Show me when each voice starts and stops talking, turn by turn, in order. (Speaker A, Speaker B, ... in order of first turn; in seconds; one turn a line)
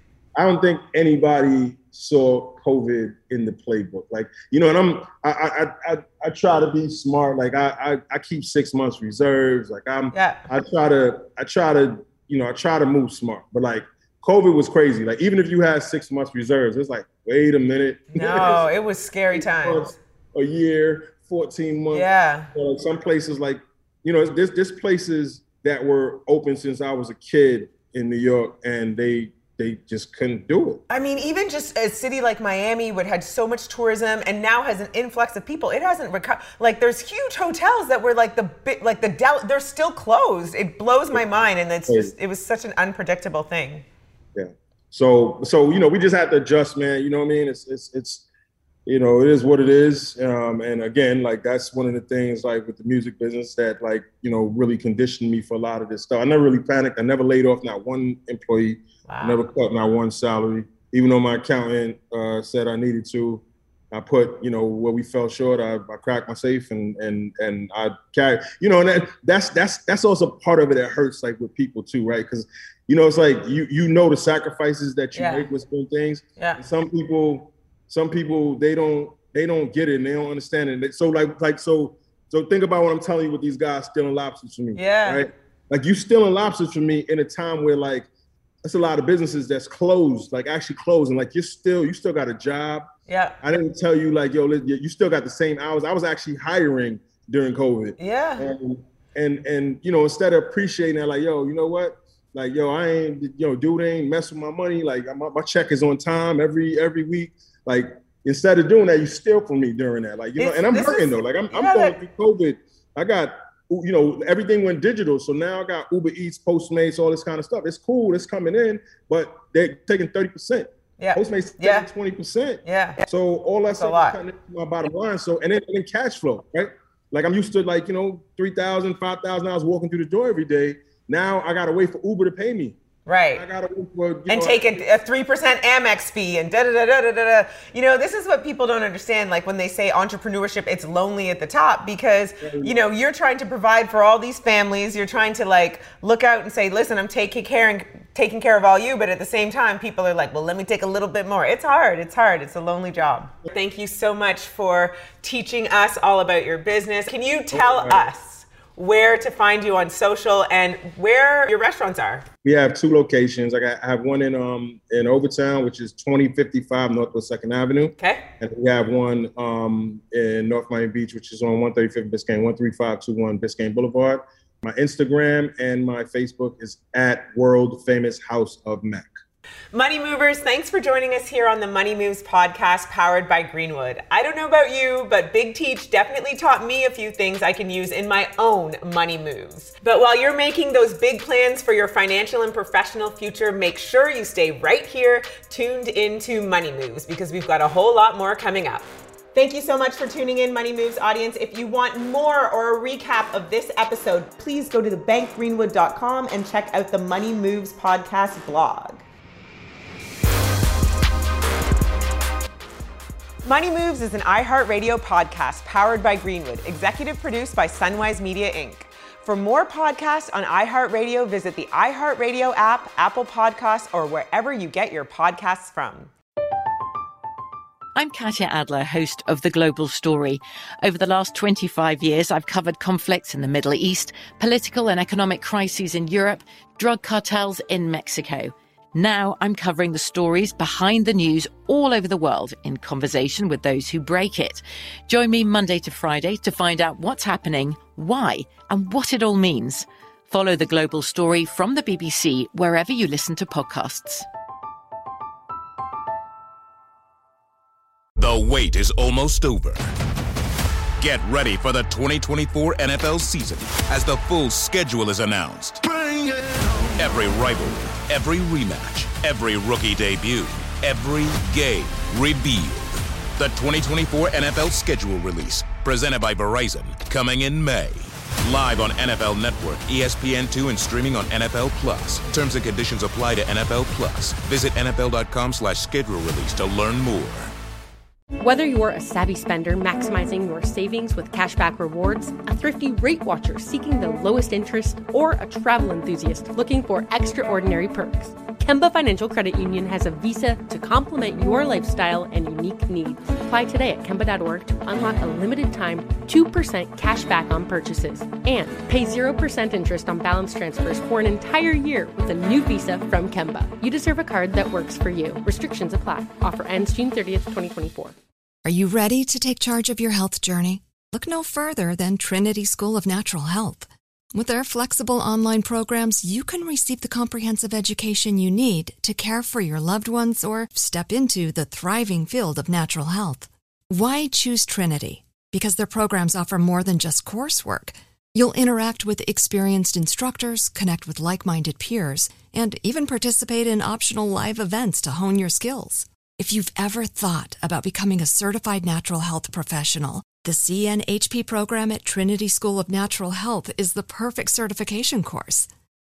Speaker A: 0.4-18.7
Speaker B: 10.1-10.4
Speaker B: 18.1-19.9
Speaker A: 19.3-30.8
Speaker B: 21.9-22.5
Speaker B: 30.9-43.9
Speaker A: 41.9-42.1
Speaker A: 44.4-48.3
Speaker A: 48.9-88.1
Speaker B: 59.1-59.4
Speaker B: 75.1-75.5
Speaker B: 84.8-85.3
Speaker A: 88.6-92.9
Speaker B: 93.1-93.4
Speaker A: 93.4-132.8
Speaker B: 98.0-98.4
Speaker B: 110.4-111.9
Speaker B: 121.0-121.9
Speaker B: 122.7-123.0
Speaker B: 123.7-124.2
Speaker B: 133.1-133.4
Speaker A: 133.3-134.8
Speaker B: 134.3-162.3
Speaker A: 142.4-142.8
Speaker A: 157.5-158.0
Speaker A: 162.4-179.1
Speaker B: 168.0-168.3
Speaker B: 179.7-209.0
Speaker B: 213.4-226.1
Speaker C: 227.9-254.3
Speaker D: 258.2-259.9
Speaker D: 261.0-265.9
Speaker D: 266.8-287.5
Speaker E: 288.4-318.1
Speaker F: 318.6-355.7